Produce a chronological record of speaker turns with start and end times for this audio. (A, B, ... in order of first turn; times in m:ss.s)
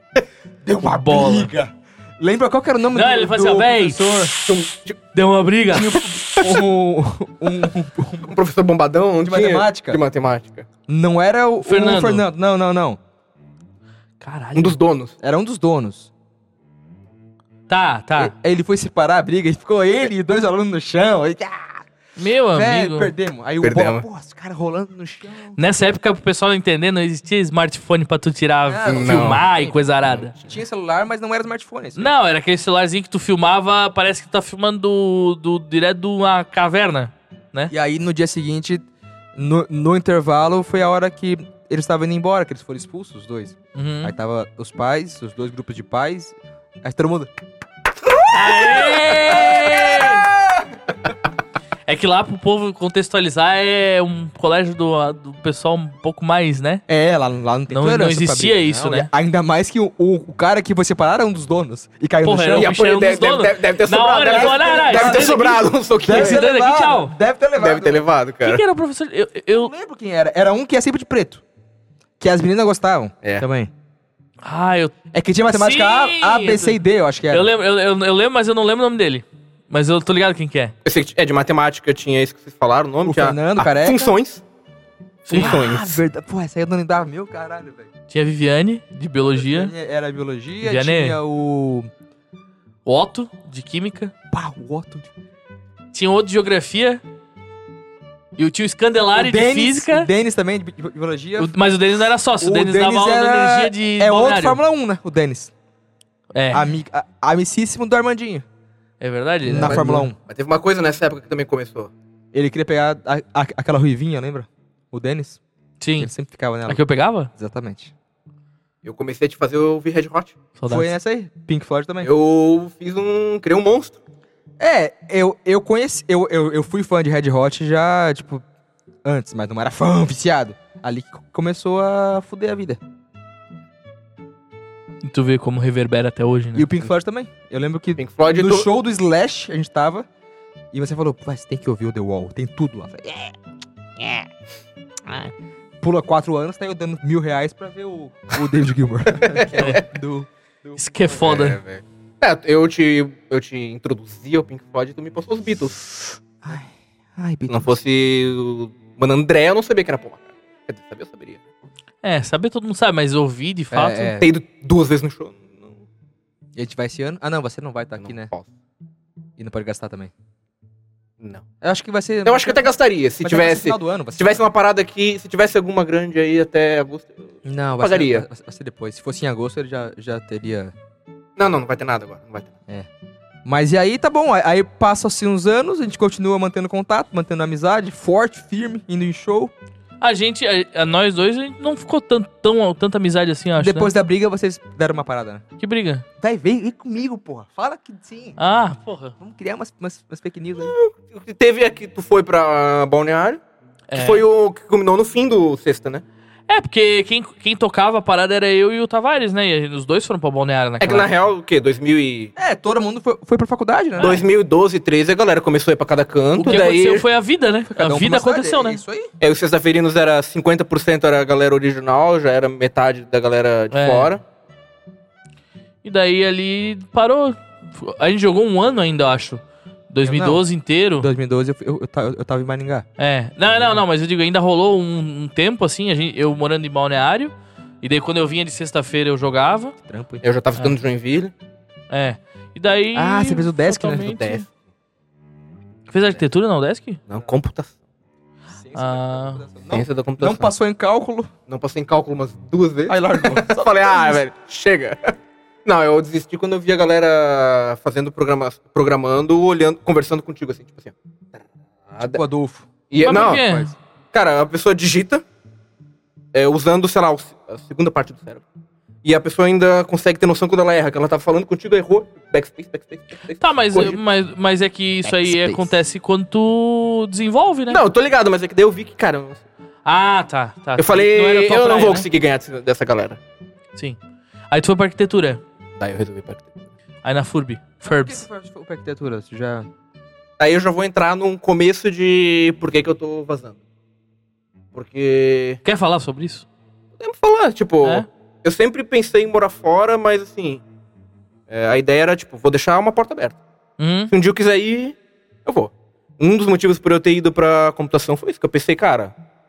0:00.6-0:04.3 A
0:00.9-0:01.5 B
0:02.9-0:04.1 B
0:04.4-0:05.0 C
0:05.1-0:06.0 B
0:05.7-0:08.3 A
0:06.3-0:06.6 C
0:08.2-0:10.7 C
0:09.2-0:10.0 A
0:10.9-0:13.0 A
0:11.6-0:12.3 B
0:14.2-0:14.8 B
0:14.5-0:15.1 C
0:15.2-0:16.1 A
0:17.7-0:18.3 B
0:18.2-0:21.8 A
0:22.2-0:23.1 B
0:22.5-0:25.6 A
0:23.6-0:24.0 C
0:25.6-0:30.3 B
0:28.7-0:32.1 A
0:28.9-0:29.5 C
0:32.0-0:37.7 B
0:37.7-0:47.3 A
0:43.7-0:44.1 B
0:48.0-0:50.7 A
0:48.3-0:50.3 B
0:51.9-0:56.8 B
0:56.9-1:02.7 A
0:57.7-0:59.1 B
1:02.2-1:07.1 B
1:02.5-1:06.4 C
1:04.2-1:08.0 A
1:07.6-1:08.6 C
1:08.4-1:09.7 B
1:09.5-1:11.4 A
1:12.2-1:13.7 A
1:14.4-1:15.0 B
1:15.1-1:17.5 A
1:15.5-1:20.7 B
1:20.8-1:24.4 C
1:23.0-1:24.1 A
1:25.3-1:25.6 B
1:25.3-1:26.0 C
1:25.3-1:27.9 A
1:28.1-1:29.7 B
1:29.3-1:31.9 A
1:30.6-1:31.2 B
1:32.8-1:34.1 B
1:34.3-1:35.1 A
1:35.9-1:37.0 B
1:38.4-1:40.1 B
1:39.1-1:41.5 A
1:41.4-1:44.6 B
1:42.4-1:45.5 A
1:46.3-1:46.7 B
1:46.5-1:48.4 A
1:49.0-1:50.1 B
1:49.4-1:50.2 A
1:49.6-1:51.9 C
1:52.3-1:55.4 A
1:55.8-1:56.1 B
1:56.0-1:57.9 A
1:56.7-1:57.3 B
1:58.8-2:00.4 C
2:00.6-2:00.9 B
2:00.7-2:02.1 A
2:02.0-2:04.0 C
2:04.6-2:08.4 A
2:09.0-2:12.8 A
2:15.0-2:16.7 B
2:16.5-2:20.1 A
2:18.0-2:18.7 C
2:20.7-2:23.3 A
2:24.0-2:24.2 A
2:25.0-2:30.7 A
2:29.1-2:29.8 C
2:29.5-2:29.8 B
2:30.8-2:31.6 B
2:31.1-2:36.2 C
2:36.4-2:37.7 A
2:37.5-2:41.4 C
2:42.0-2:44.1 B
2:43.7-2:44.3 A
2:44.2-2:45.7 C
2:46.6-2:48.3 A
2:48.0-2:48.4 C
2:49.4-2:50.1 A
2:51.6-2:52.7 A
2:52.2-2:58.2 C
2:53.2-2:54.4 A
2:57.4-3:00.7 A
3:01.4-3:02.5 C
3:03.4-3:09.5 A
3:10.0-3:13.9 B
3:13.6-3:15.4 A
3:15.6-3:16.0 B
3:16.2-3:18.4 A
3:18.4-3:19.1 B
3:19.2-3:20.7 A
3:20.6-3:23.4 C
3:23.9-3:24.2 B
3:23.9-3:26.0 C
3:26.5-3:31.1 B
3:30.8-3:32.3 C
3:32.4-3:34.2 A
3:34.0-3:34.2 B
3:34.0-3:37.0 C
3:36.4-3:38.8 B
3:37.7-3:39.1 A
3:39.2-3:44.2 C
3:43.7-3:44.1 B
3:45.8-3:51.1 B
3:50.0-3:50.4 A
3:51.0-3:52.8 A
3:53.0-3:59.7 B
3:59.8-4:00.2 A
4:00.2-4:01.3 C
4:01.9-4:04.4 B
4:02.9-4:04.2 A
4:04.0-4:04.4 C
4:05.9-4:07.0 B
4:07.1-4:07.7 C
4:08.5-4:11.3 A
4:08.7-4:09.4 B
4:09.7-4:10.5 C
4:11.5-4:15.1 C
4:12.9-4:14.2 A
4:15.6-4:20.9 C
4:21.9-4:22.2 C
4:22.0-4:23.7 A
4:22.9-4:23.5 C
4:23.0-4:23.7 B
4:24.1-4:25.2 C
4:26.3-4:28.4 C
4:29.0-4:34.0 C
4:33.4-4:37.8 B
4:35.0-4:35.7 A
4:37.7-4:39.4 C
4:39.8-4:42.0 B
4:40.8-4:43.2 C
4:44.5-4:45.4 B
4:45.8-4:46.6 C
4:47.0-4:48.2 B
4:47.8-4:49.7 A
4:50.4-4:53.6 C
4:54.7-4:55.6 C
4:55.6-4:56.4 B
4:57.0-5:00.6 C
5:01.5-5:03.4 C
5:03.8-5:04.1 B
5:04.1-5:09.1 C